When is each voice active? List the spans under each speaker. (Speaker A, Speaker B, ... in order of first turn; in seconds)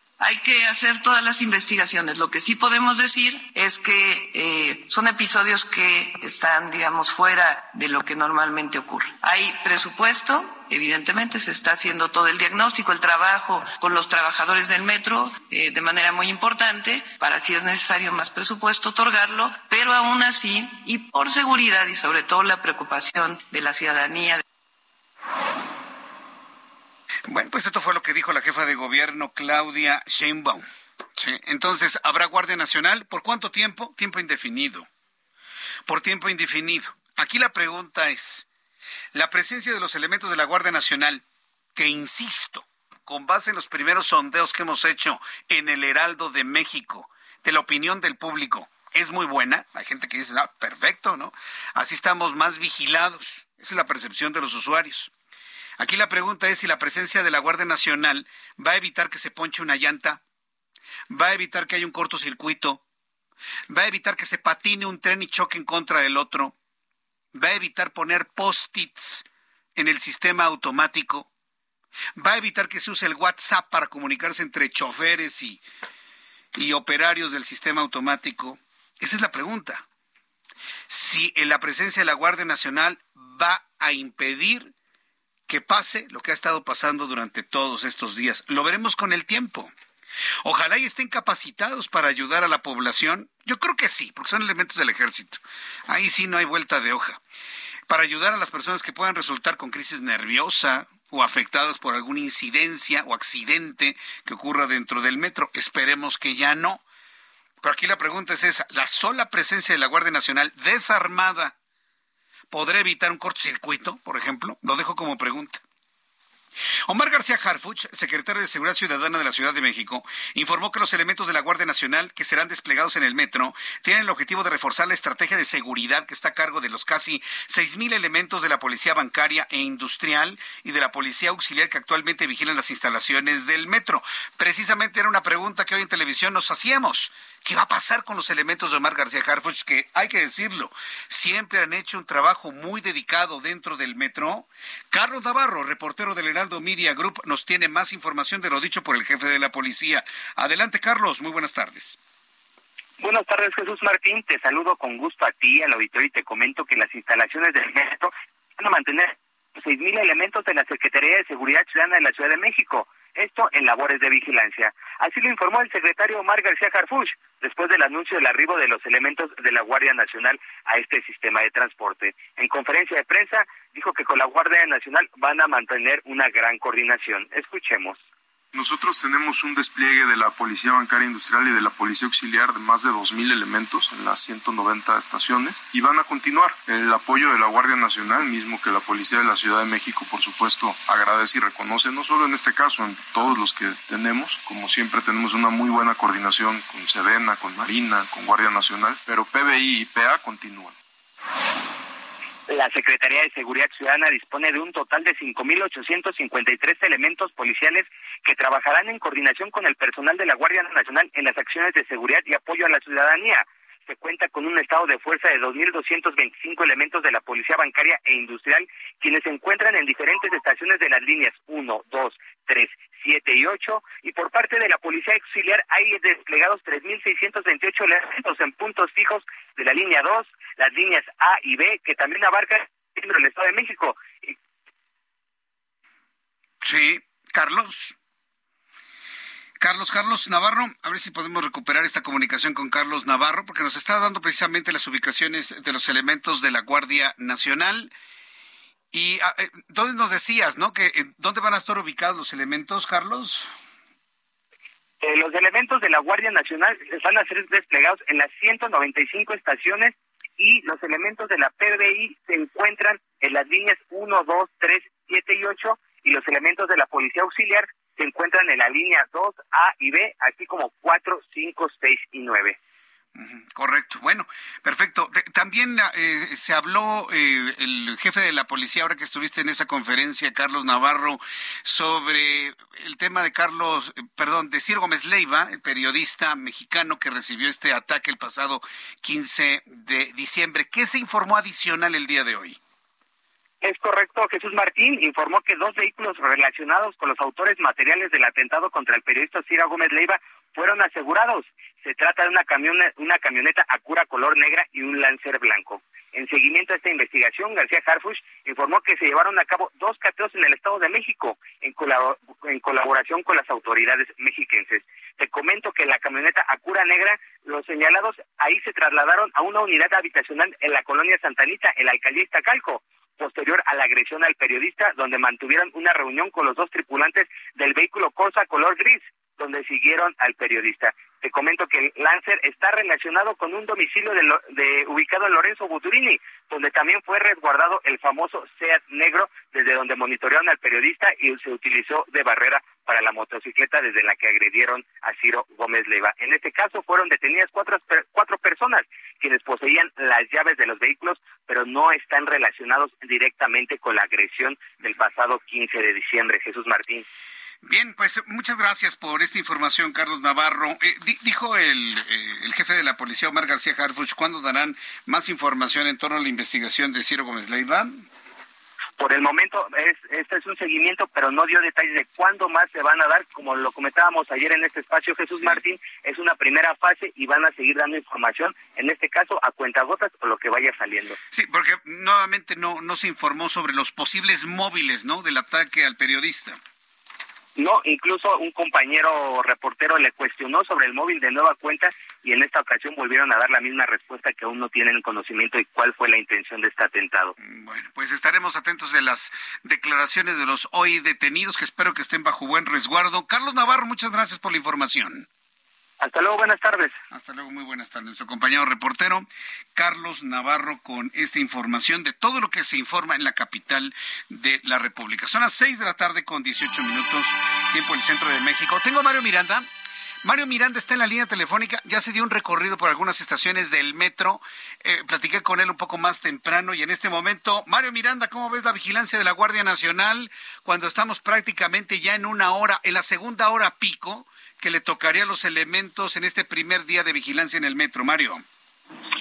Speaker A: 0.2-24.4
Speaker B: 27.3-30.6, 31.2-34.9, 35.9-38.5, 39.1-41.2, 41.8-55.1, 55.8-60.2, 61.1-62.8, 63.7-66.5, 67.3-69.2, 69.8-71.3, 72.2-75.6, 76.5-79.8, 80.9-84.7, 85.5-89.7, 90.4-97.2, 97.9-106.8, 107.6-111.5, 112.5-115.6, 116.9-152.0, 236.6-238.0, 239.6-247.9, 248.9-253.5, 273.1-292.6, 357.6-368.1, 381.3-386.6, 397.4-405.3, 407.1-419.7, 420.2-438.4
Speaker C: 153.0-178.0, 202.5-234.3, 255.0-272.6, 293.6-357.1, 369.0-381.2, 387.6-397.3, 406.0-407.0
Speaker D: 178.5-200.8